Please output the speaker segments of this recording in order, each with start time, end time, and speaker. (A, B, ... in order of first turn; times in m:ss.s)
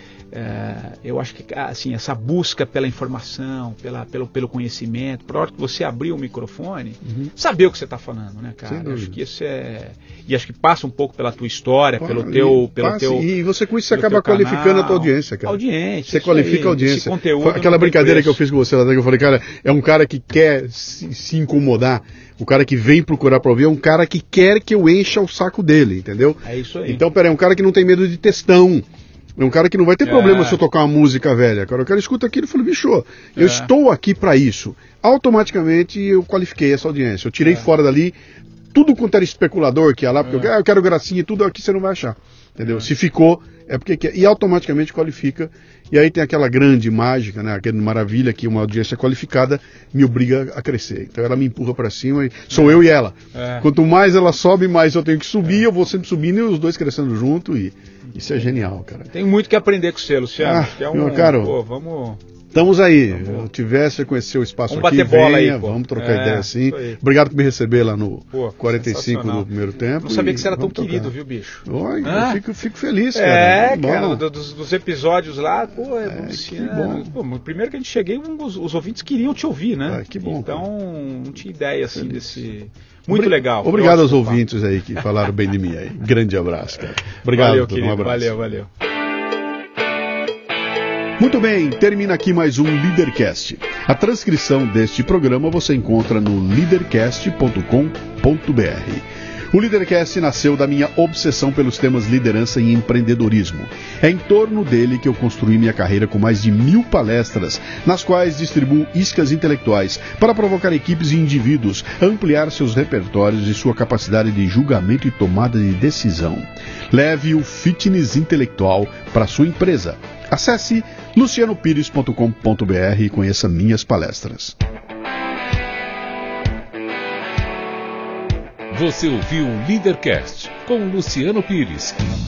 0:00.3-0:13.3 A
0:07.0-0:07.3 B
0:08.6-0:09.2 B
0:12.0-0:28.8 B
0:13.9-0:18.4 A
0:26.4-0:27.0 A
0:29.4-0:38.1 B
0:30.0-0:30.6 A
0:33.4-0:33.7 A
0:38.7-0:59.1 B
0:40.2-0:40.5 A
0:52.5-0:52.8 A
0:53.3-0:53.6 A
0:59.1-1:02.2 A
1:00.4-1:01.6 B
1:02.5-1:11.1 B
1:04.7-1:07.0 A
1:08.3-1:09.5 A
1:10.0-1:12.4 A
1:11.6-1:14.2 B
1:13.1-1:24.4 A
1:16.0-1:17.1 B
1:19.9-1:20.6 B
1:22.0-1:22.3 B
1:23.1-1:28.3 B
1:27.3-1:28.7 A
1:31.2-2:04.6 B
2:08.7-2:12.1 C